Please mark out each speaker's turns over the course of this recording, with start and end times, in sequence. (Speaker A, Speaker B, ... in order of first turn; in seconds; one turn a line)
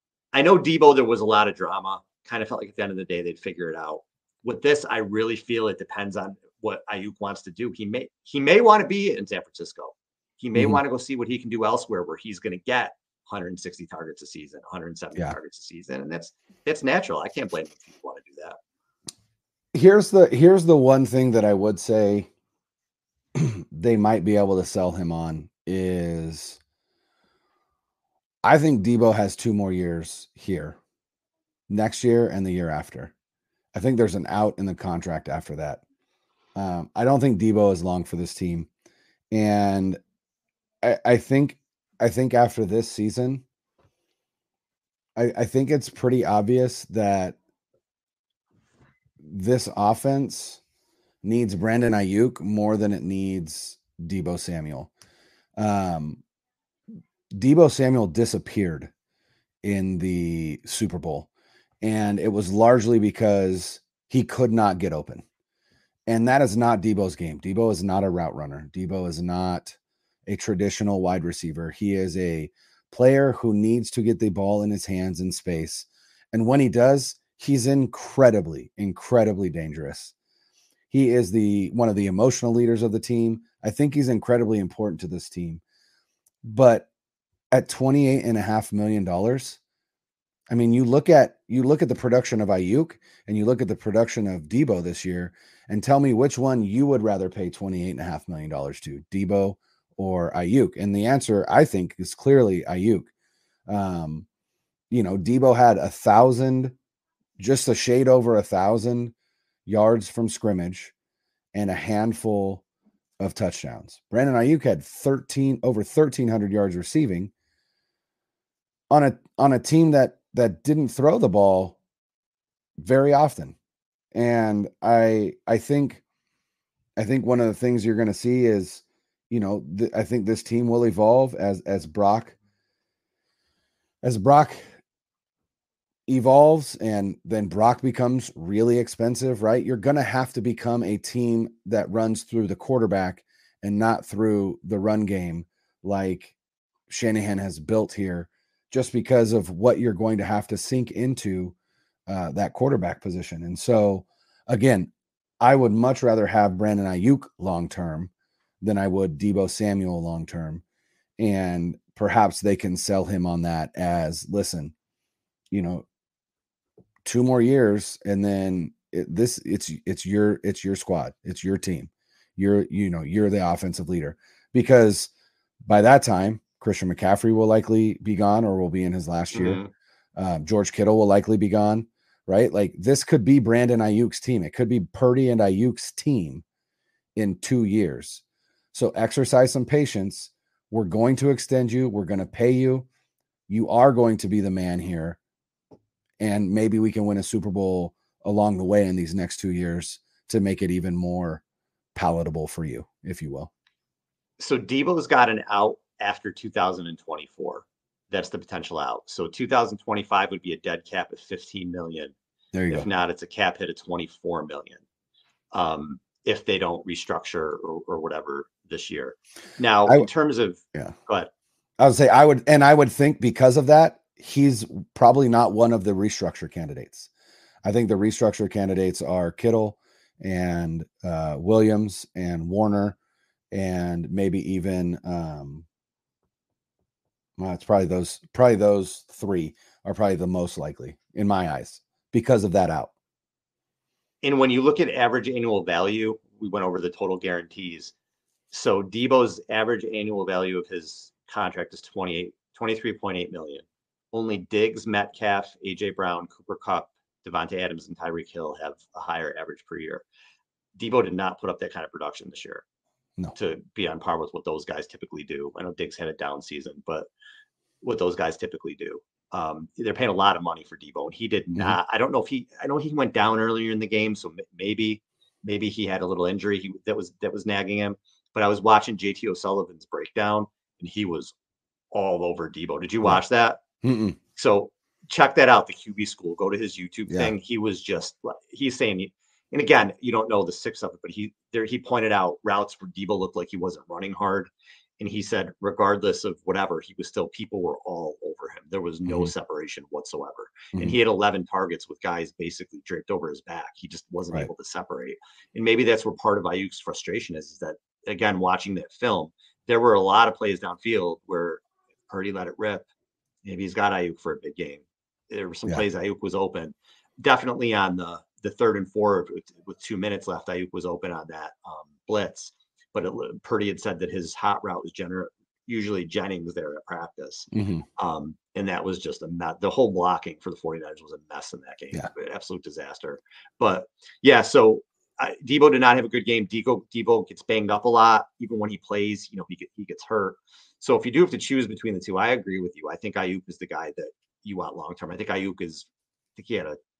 Speaker A: 0.3-18.6
Speaker B: 19.7-22.3
Speaker B: 23.4-26.6
Speaker B: 28.4-30.8
Speaker B: 31.7-33.1
Speaker B: 33.7-35.8
Speaker B: 36.5-38.7
Speaker B: 39.3-40.0
Speaker B: 40.8-43.4
Speaker B: 45.1-47.4
Speaker B: 49.2-50.6
Speaker B: 51.2-54.9
Speaker B: 55.6-56.2
Speaker B: 57.3-58.9
Speaker B: 59.6-61.3
Speaker B: 61.8-65.2
Speaker B: 66.1-80.1
Speaker B: 80.9-85.6
Speaker B: 86.4-86.9
Speaker B: 87.5-89.6
Speaker B: 90.5-103.1
Speaker B: 103.7-104.2
Speaker B: 104.9-106.7
Speaker B: 107.4-109.1
Speaker B: 109.7-110.9
Speaker B: 111.5-112.6
Speaker B: 113.2-117.3
Speaker B: 118.9-121.8
Speaker B: 122.8-123.5
Speaker B: 124.1-126.0
Speaker B: 127.0-132.3
Speaker B: 134.0-134.7
Speaker B: 136.1-146.3
Speaker B: 146.9-151.5
Speaker B: 152.1-158.1
Speaker B: 158.6-160.6
Speaker B: 161.2-164.7
Speaker B: 165.5-165.8
Speaker B: 167.0-175.1
Speaker B: 175.6-179.6
Speaker A: 179.3-179.7
Speaker B: 180.2-186.4
Speaker B: 187.2-192.8
Speaker B: 193.5-195.2
Speaker B: 196.2-201.4
Speaker B: 201.9-203.5
Speaker A: 204.4-212.1
Speaker B: 212.5-212.9
Speaker A: 212.7-214.8
Speaker A: 215.5-221.3
Speaker B: 221.8-227.1
Speaker B: 227.6-232.9
Speaker B: 233.5-235.6
Speaker B: 237.4-242.9
Speaker A: 244.2-247.9
Speaker A: 248.5-260.0
Speaker A: 260.8-262.6
Speaker A: 263.3-267.1
Speaker A: 267.8-281.3
Speaker A: 281.9-283.6
Speaker B: 283.8-284.2
Speaker A: 284.4-312.8
Speaker B: 299.1-299.3
Speaker A: 313.4-346.8
Speaker B: 327.5-327.8